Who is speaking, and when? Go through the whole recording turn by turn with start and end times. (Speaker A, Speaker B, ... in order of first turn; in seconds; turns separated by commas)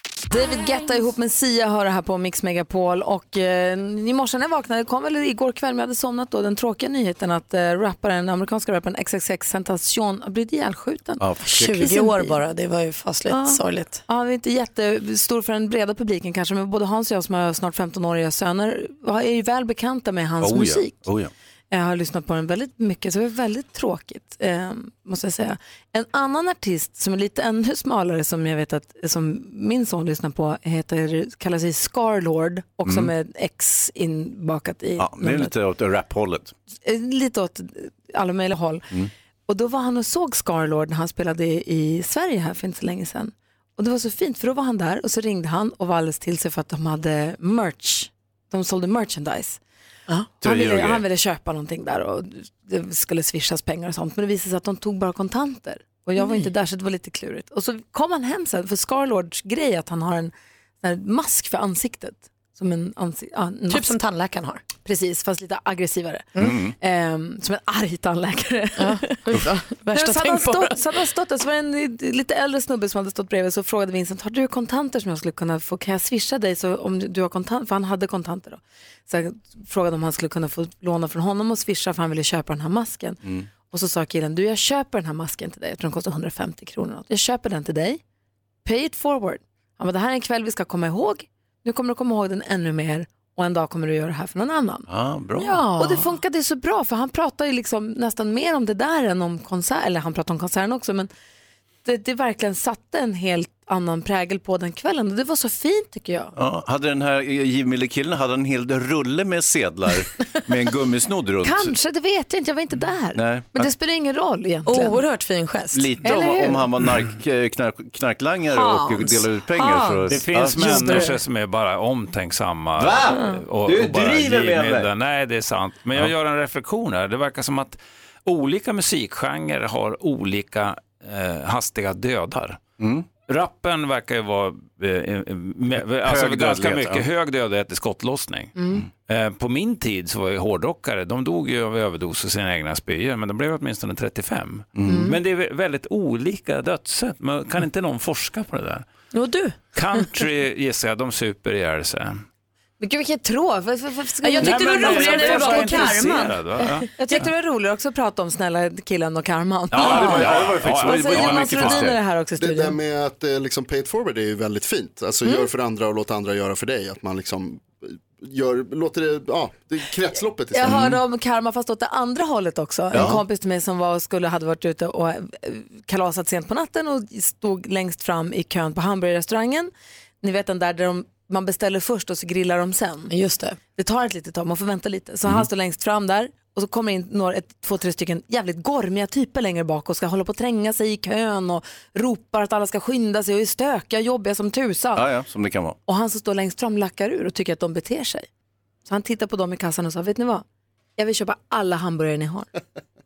Speaker A: 0.3-12.4, Speaker B: 11.2-11.9, Speaker C: 11.4-14.0, Speaker A: 13.3-21.0, Speaker B: 20.4-21.3, Speaker A: 21.7-35.5, Speaker B: 32.8-33.1, Speaker B: 35.0-36.5, Speaker A: 36.8-38.8, Speaker A: 39.5-49.6, Speaker A: 50.4-64.0, Speaker B: 50.4-51.0, Speaker C: 63.7-64.6, Speaker A: 64.8-88.0, Speaker B: 66.4-66.7, Speaker C: 68.8-70.8, Speaker A: 88.6-94.9, Speaker B: 94.9-95.9, Speaker A: 95.4-101.1, Speaker C: 95.7-96.0, Speaker A: 101.8-106.3, Speaker B: 106.3-111.7, Speaker A: 111.4-115.0, Speaker B: 113.1-113.7, Speaker C: 114.7-116.2, Speaker B: 115.7-121.1, Speaker A: 116.0-116.6, Speaker C: 118.5-121.2, Speaker D: 120.1-132.6, Speaker B: 122.8-124.9, Speaker B: 132.8-133.1, Speaker D: 133.2-148.9, Speaker B: 136.0-137.1, Speaker A: 138.6-138.8, Speaker B: 144.7-145.1, Speaker A: 144.8-145.2, Speaker C: 149.1-150.1, Speaker D: 149.7-152.2, Speaker A: 152.8-156.2, Speaker C: 154.2-156.9, Speaker D: 154.4-156.9, Speaker A: 156.9-162.8, Speaker B: 159.7-162.0, Speaker D: 159.7-161.8, Speaker E: 162.4-170.8, Speaker A: 170.5-179.7, Speaker B: 170.7-171.0, Speaker B: 172.9-173.2, Speaker A: 180.2-183.1, Speaker C: 183.1-183.6, Speaker A: 183.7-195.1, Speaker B: 194.9-195.8, Speaker A: 195.8-198.3, Speaker A: 198.8-200.4, Speaker A: 201.0-202.5